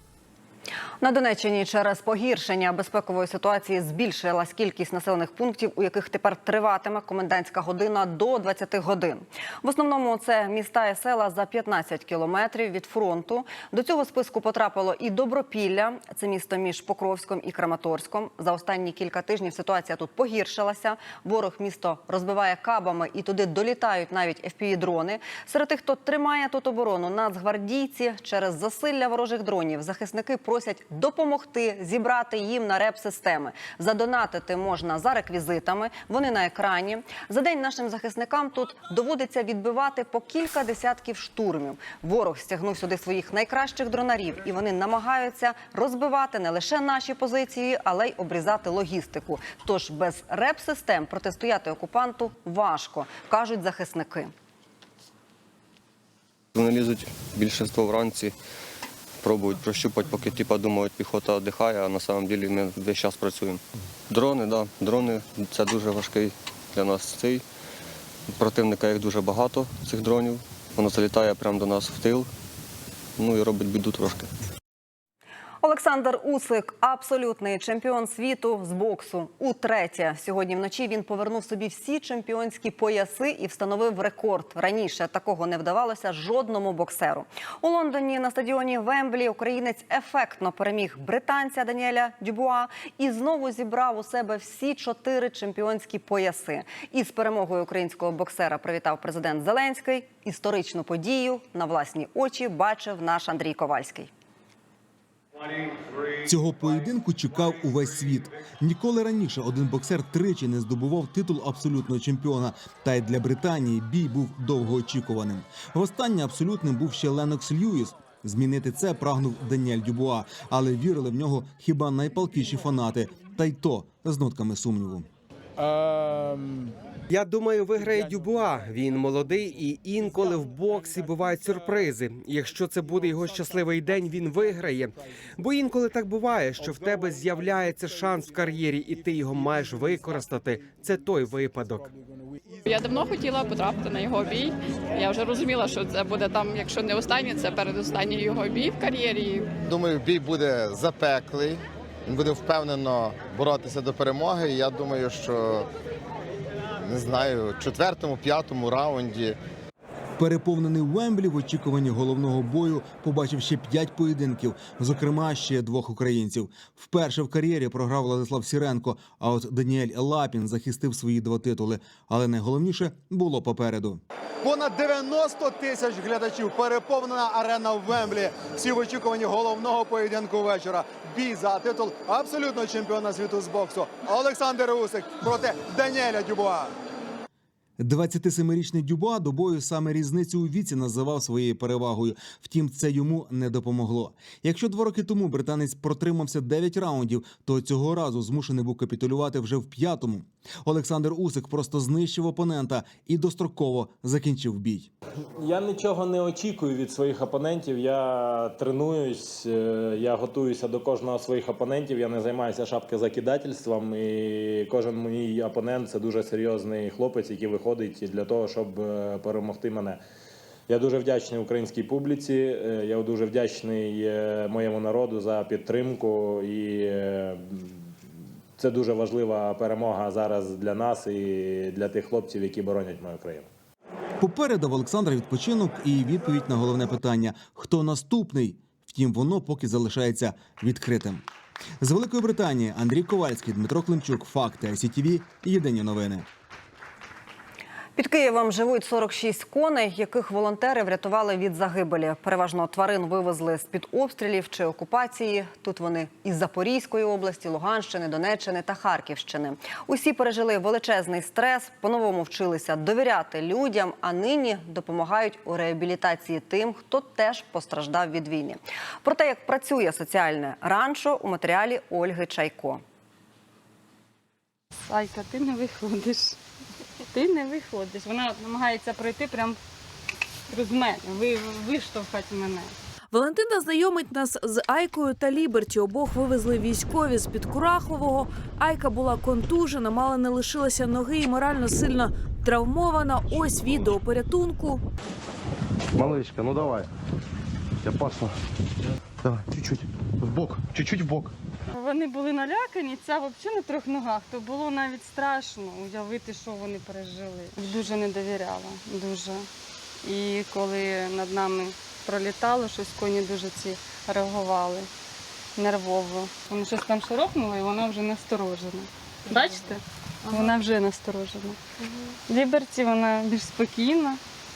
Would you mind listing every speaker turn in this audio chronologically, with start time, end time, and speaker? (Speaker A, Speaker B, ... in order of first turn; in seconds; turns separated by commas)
Speaker A: 1.0-54.3, Speaker B: 56.5-58.4, Speaker B: 59.2-67.4, Speaker B: 68.4-72.3, Speaker B: 73.2-74.3, Speaker A: 75.6-104.1, Speaker C: 106.2-125.1, Speaker D: 127.1-141.9, Speaker E: 142.7-149.5, Speaker F: 149.6-155.7, Speaker F: 156.8-159.4, Speaker C: 160.2-174.0, Speaker G: 174.4-186.7, Speaker C: 187.8-204.9, Speaker H: 205.4-220.0, Speaker H: 220.7-227.9, Speaker H: 228.6-233.5, Speaker C: 234.2-241.2, Speaker C: 241.8-246.2, Speaker A: 248.0-272.8, Speaker I: 274.8-276.4, Speaker I: 277.1-279.6, Speaker I: 280.5-282.7, Speaker J: 283.1-294.8, Speaker K: 296.0-296.8, Speaker K: 297.9-298.2, Speaker K: 299.2-301.3, Speaker I: 301.7-309.5, Speaker I: 310.0-314.9, Speaker I: 315.6-321.6, Speaker I: 322.3-324.2